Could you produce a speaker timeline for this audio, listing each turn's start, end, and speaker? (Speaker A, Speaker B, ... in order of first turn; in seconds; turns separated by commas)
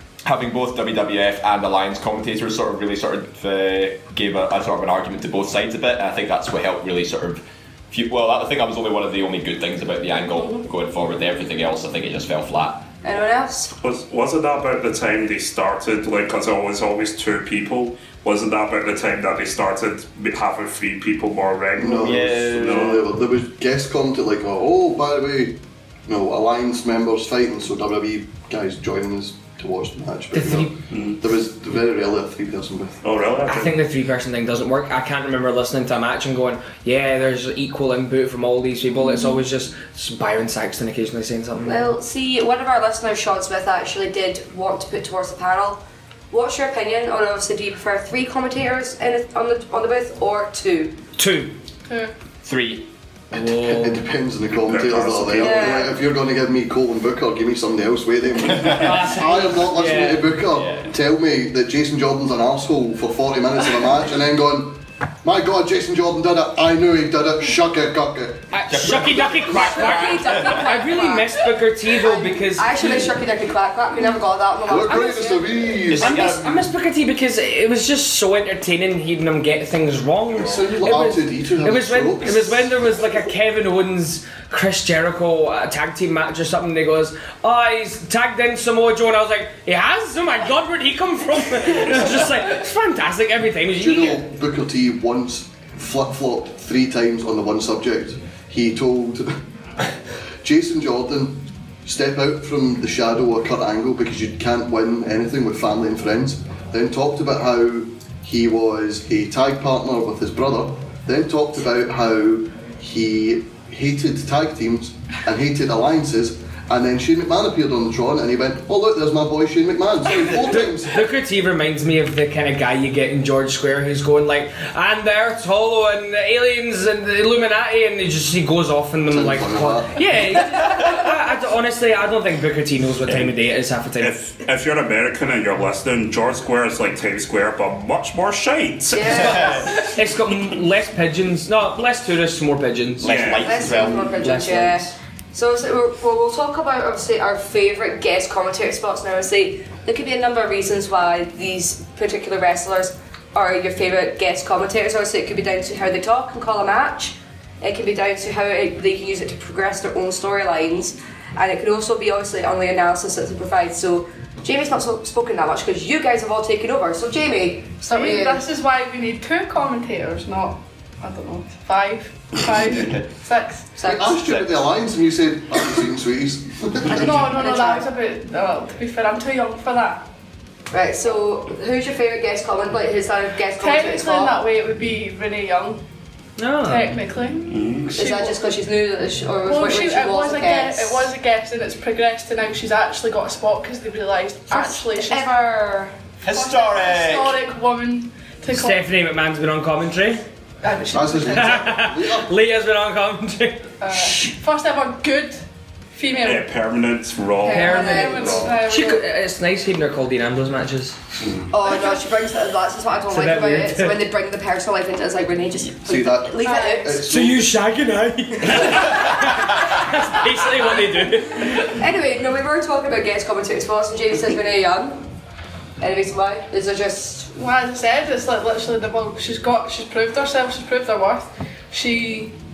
Speaker A: 0.2-12.9, Speaker B: 10.4-10.7, Speaker B: 13.0-13.7, Speaker C: 13.8-23.0, Speaker D: 21.8-33.0, Speaker A: 22.0-23.0, Speaker E: 30.3-30.7, Speaker C: 30.9-31.2, Speaker C: 33.0-33.8, Speaker E: 33.5-41.9, Speaker B: 41.6-51.0, Speaker E: 51.2-51.5, Speaker F: 51.9-52.1, Speaker A: 52.4-52.9, Speaker D: 53.3-68.5, Speaker E: 53.3-54.1, Speaker C: 54.7-55.9, Speaker B: 55.4-55.9, Speaker A: 58.4-58.9, Speaker E: 58.6-60.3, Speaker A: 60.5-60.9, Speaker E: 68.5-73.1, Speaker A: 68.7-70.7, Speaker B: 69.5-75.6, Speaker D: 74.7-76.3, Speaker A: 75.9-76.7, Speaker E: 75.9-94.2, Speaker D: 80.3-82.7, Speaker D: 93.8-99.4, Speaker D: 100.4-121.0, Speaker E: 120.3-134.2, Speaker D: 129.1-130.2, Speaker A: 133.1-133.3, Speaker C: 134.0-139.6, Speaker B: 138.9-139.7, Speaker E: 139.1-143.2, Speaker A: 139.1-139.7, Speaker A: 143.0-144.4, Speaker C: 143.0-143.7, Speaker B: 143.4-168.4, Speaker E: 144.2-144.9, Speaker F: 167.9-173.7, Speaker A: 172.8-173.0, Speaker B: 173.8-174.2, Speaker D: 173.8-177.2, Speaker A: 174.2-174.5, Speaker F: 176.9-180.1, Speaker B: 176.9-177.9, Speaker B: 180.7-184.4, Speaker F: 183.6-185.8, Speaker E: 186.4-187.0, Speaker F: 186.6-188.4, Speaker C: 187.5-187.9, Speaker B: 187.9-191.1, Speaker F: 189.4-195.3, Speaker B: 194.5-195.9, Speaker A: 196.2-197.4, Speaker F: 196.3-198.9, Speaker E: 198.5-204.3, Speaker F: 200.6-201.6, Speaker D: 200.9-202.3, Speaker F: 203.8-205.4, Speaker F: 205.9-206.5, Speaker C: 206.2-208.5, Speaker B: 207.4-208.5, Speaker E: 207.5-211.0, Speaker F: 207.6-209.1, Speaker B: 211.5-217.1, Speaker E: 213.1-214.1, Speaker D: 215.8-217.5, Speaker F: 216.4-216.9, Speaker E: 217.1-221.8, Speaker B: 221.6-225.0, Speaker B: 225.8-227.3, Speaker F: 227.3-232.4